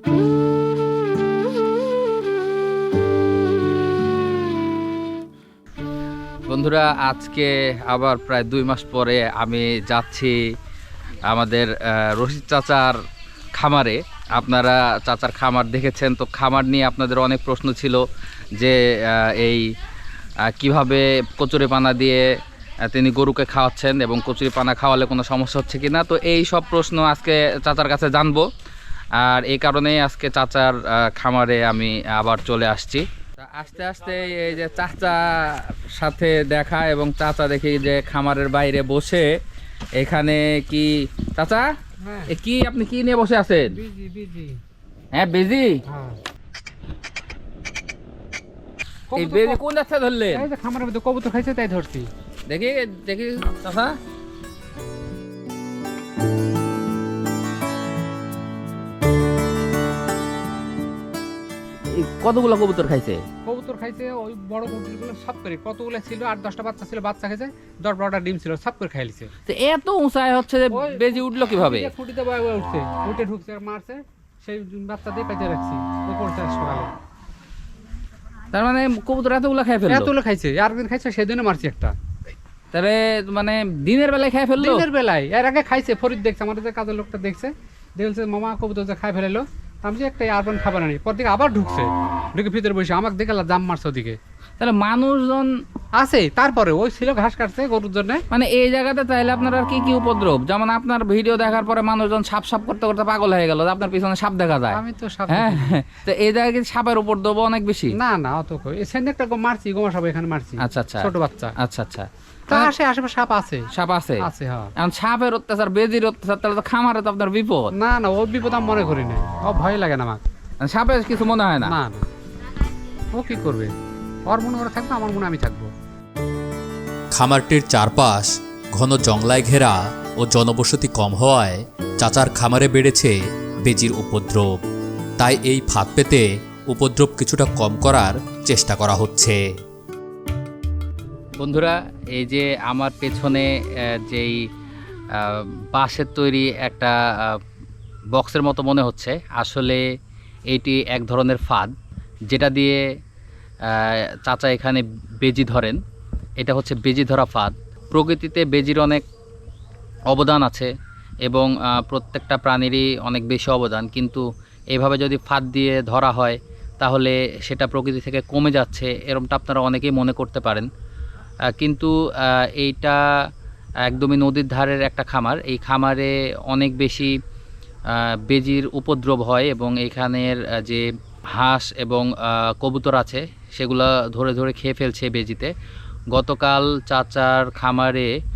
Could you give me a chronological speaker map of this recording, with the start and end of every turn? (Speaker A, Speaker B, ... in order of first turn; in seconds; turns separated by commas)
Speaker A: 6.5-10.4, Speaker A: 11.2-13.0, Speaker A: 13.6-18.0, Speaker A: 18.6-19.7, Speaker A: 20.5-22.3, Speaker A: 22.9-28.4, Speaker A: 29.2-39.3, Speaker A: 40.0-41.7, Speaker B: 42.0-42.3, Speaker A: 42.3-43.7, Speaker B: 43.7-44.6, Speaker A: 45.1-45.8, Speaker B: 45.9-46.2, Speaker B: 49.1-49.6, Speaker A: 49.1-50.5, Speaker B: 50.3-52.1, Speaker A: 52.5-54.0, Speaker A: 61.9-63.2, Speaker B: 63.4-69.3, Speaker A: 69.5-71.9, Speaker B: 70.7-76.9, Speaker A: 78.5-80.1, Speaker B: 79.9-81.9, Speaker A: 82.7-84.8, Speaker B: 84.6-94.2, Speaker A: 94.6-95.5, Speaker B: 96.0-98.2, Speaker A: 98.3-107.9, Speaker B: 104.7-105.8, Speaker B: 107.9-111.5, Speaker A: 110.6-112.7, Speaker B: 112.5-113.7, Speaker A: 113.7-114.2, Speaker B: 114.2-114.7, Speaker A: 114.8-117.7, Speaker B: 117.7-120.2, Speaker A: 120.6-121.8, Speaker B: 121.6-122.0, Speaker B: 123.1-123.7, Speaker B: 124.3-125.7, Speaker C: 127.1-134.6, Speaker C: 135.2-139.4, Speaker A: 141.4-144.4, Speaker A: 145.1-147.4, Speaker A: 148.1-149.8, Speaker A: 150.5-151.7, Speaker A: 152.3-152.8, Speaker A: 153.7-155.8, Speaker A: 156.4-159.0, Speaker A: 160.1-160.7, Speaker A: 161.2-170.7, Speaker A: 171.6-173.0, Speaker A: 173.8-177.1, Speaker A: 177.9-185.5, Speaker A: 186.1-188.1